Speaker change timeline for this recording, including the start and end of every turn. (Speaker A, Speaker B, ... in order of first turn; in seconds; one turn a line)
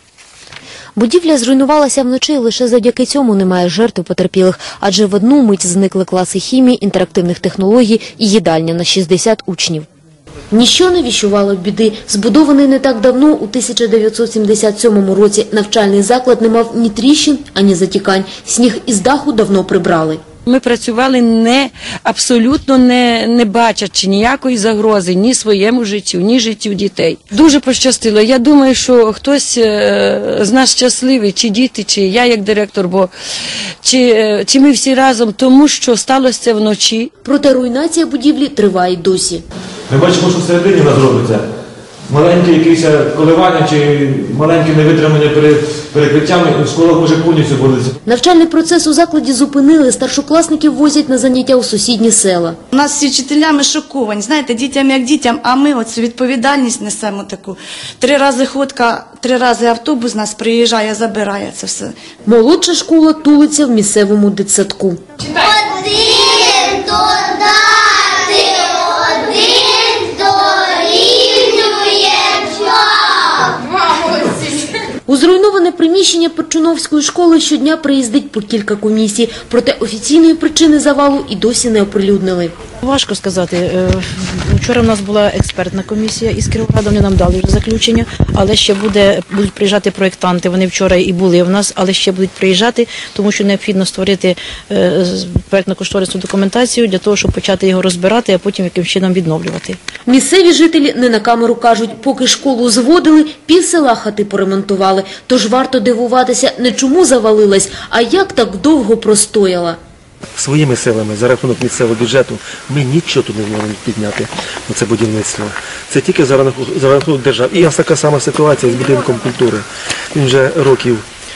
Speaker A: 0.9-9.8
Speaker A: 10.5-20.2
Speaker B: 20.5-33.1
Speaker B: 33.8-37.1
Speaker A: 37.2-39.4
Speaker C: 39.9-41.4
Speaker C: 42.1-47.8
Speaker A: 48.0-52.6
Speaker D: 52.7-61.9
Speaker A: 62.2-65.0
Speaker E: 65.3-74.3
Speaker A: 75.1-82.5
Speaker F: 82.8-99.8
Speaker A: 100.1-109.8
Speaker G: 110.4-121.0